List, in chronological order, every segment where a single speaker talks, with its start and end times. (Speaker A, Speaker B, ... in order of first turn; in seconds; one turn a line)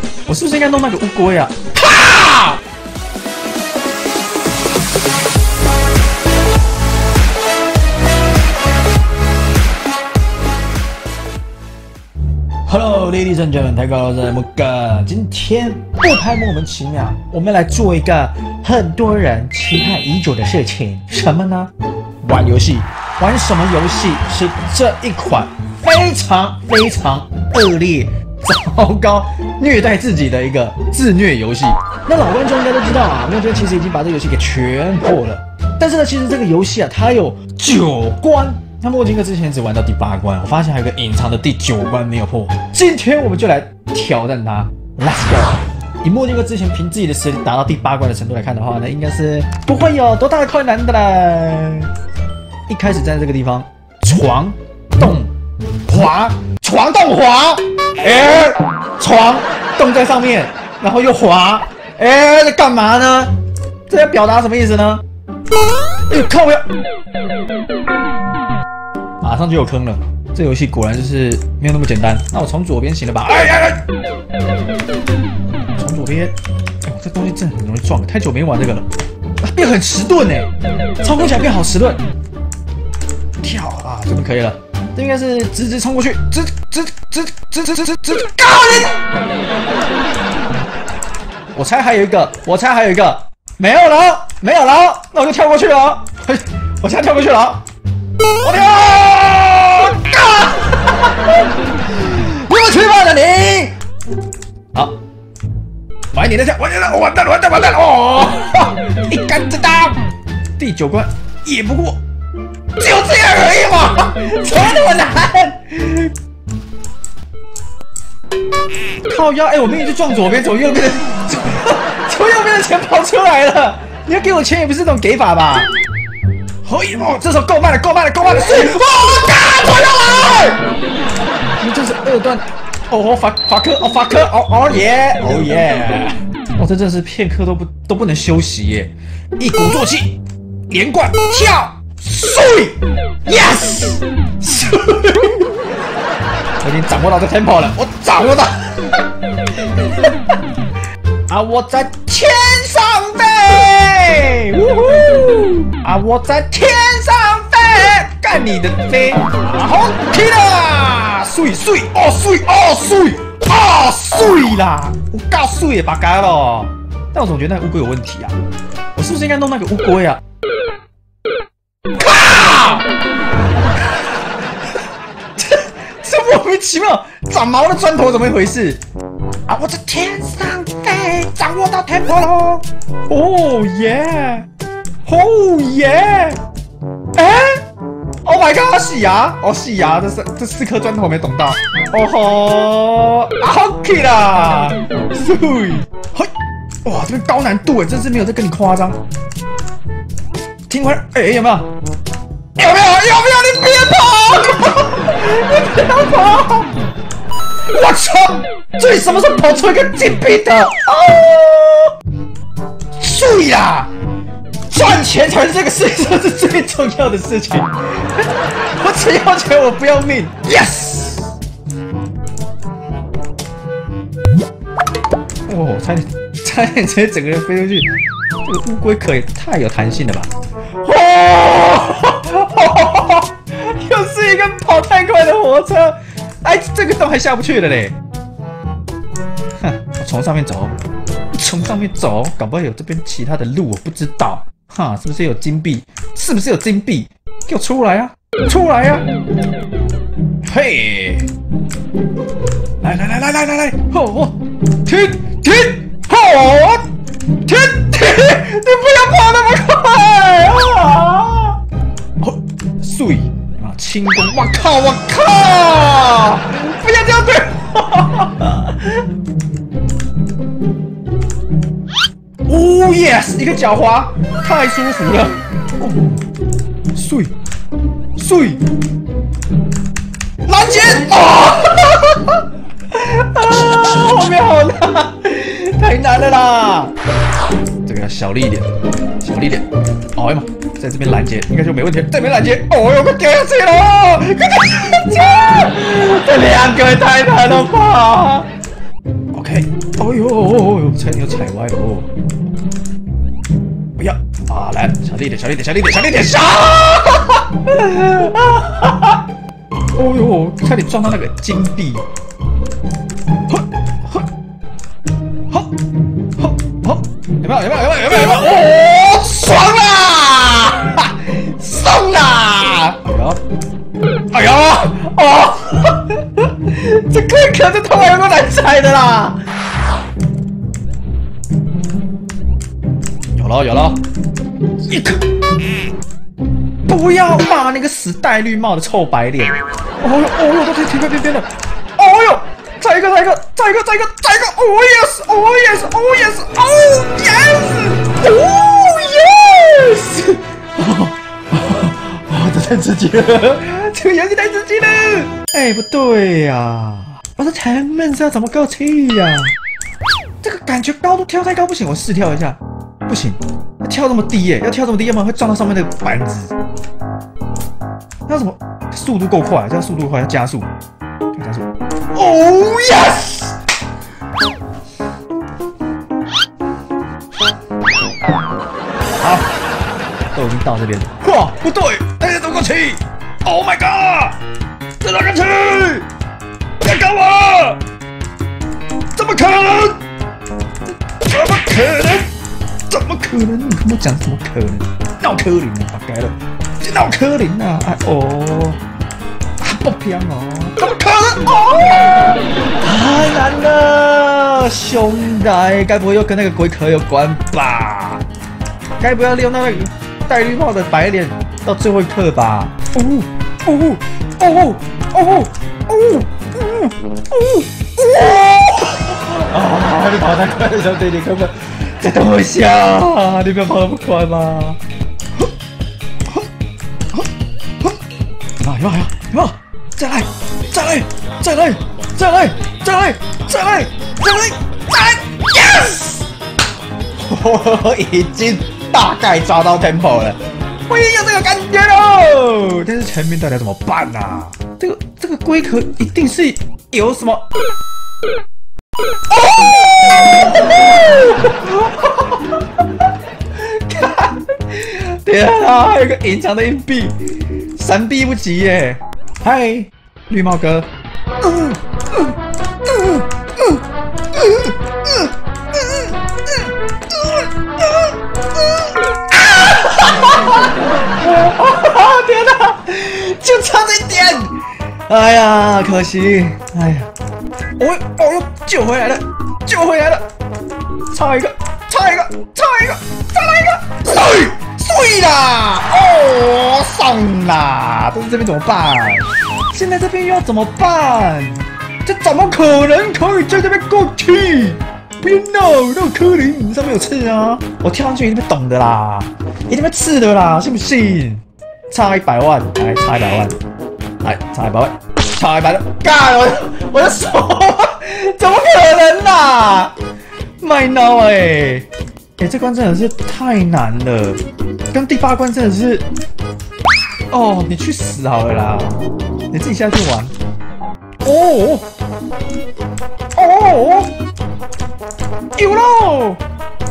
Speaker A: 0.3-2.6
Speaker A: 12.7-51.9
Speaker A: 52.7-55.3
Speaker A: 55.9-63.3
Speaker A: 63.9-65.0
Speaker A: 66.1-66.7
Speaker A: 69.2-73.9
Speaker A: 75.8-78.9
Speaker A: 79.4-82.0
Speaker A: 83.4-89.0
Speaker A: 91.5-97.7
Speaker A: 98.4-103.8
Speaker A: 106.1-110.0
Speaker A: 110.6-112.0
Speaker A: 112.8-116.1
Speaker A: 119.0-125.7
Speaker A: 126.6-130.7
Speaker A: 131.6-140.2
Speaker A: 140.7-145.7
Speaker A: 146.6-150.2
Speaker A: 151.3-168.4
Speaker A: 168.9-170.2
Speaker A: 172.0-172.9
Speaker A: 175.4-178.8
Speaker A: 179.5-184.5
Speaker A: 185.1-186.4
Speaker A: 187.2-187.6
Speaker A: 188.2-196.3
Speaker A: 196.8-199.0
Speaker A: 200.7-201.7
Speaker A: 202.6-206.7
Speaker A: 207.7-211.9
Speaker A: 213.0-213.9
Speaker A: 214.7-221.3
Speaker A: 225.5-237.9
Speaker A: 239.6-240.8
Speaker A: 241.3-249.1
Speaker A: 250.4-251.3
Speaker A: 252.8-256.9
Speaker A: 257.4-261.6
Speaker A: 262.2-269.1
Speaker A: 272.5-276.2
Speaker A: 276.9-277.3
Speaker A: 278.2-278.6
Speaker A: 280.5-286.9
Speaker A: 287.9-298.5
Speaker A: 299.3-302.1
Speaker A: 304.0-309.2
Speaker A: 309.9-312.1
Speaker A: 313.5-314.3
Speaker A: 316.4-323.4
Speaker A: 324.3-329.4
Speaker A: 333.3-334.0
Speaker A: 334.8-335.3
Speaker A: 336.9-359.5
Speaker A: 360.4-366.6
Speaker A: 368.3-370.7
Speaker A: 371.3-373.6
Speaker A: 379.2-379.5
Speaker A: 380.3-384.4
Speaker A: 385.0-386.1
Speaker A: 386.8-387.8
Speaker A: 389.1-390.0
Speaker A: 391.2-392.3
Speaker A: 392.9-398.8
Speaker A: 399.6-408.2
Speaker A: 409.0-424.8
Speaker A: 428.6-436.3
Speaker A: 437.2-447.5
Speaker A: 449.3-460.9
Speaker A: 461.4-463.8
Speaker A: 464.3-477.1
Speaker A: 477.8-480.3
Speaker A: 481.1-503.6
Speaker A: 504.2-510.0
Speaker A: 510.6-516.1
Speaker A: 517.3-519.0
Speaker A: 519.5-520.3
Speaker A: 521.2-521.9
Speaker A: 523.4-524.1
Speaker A: 525.6-526.4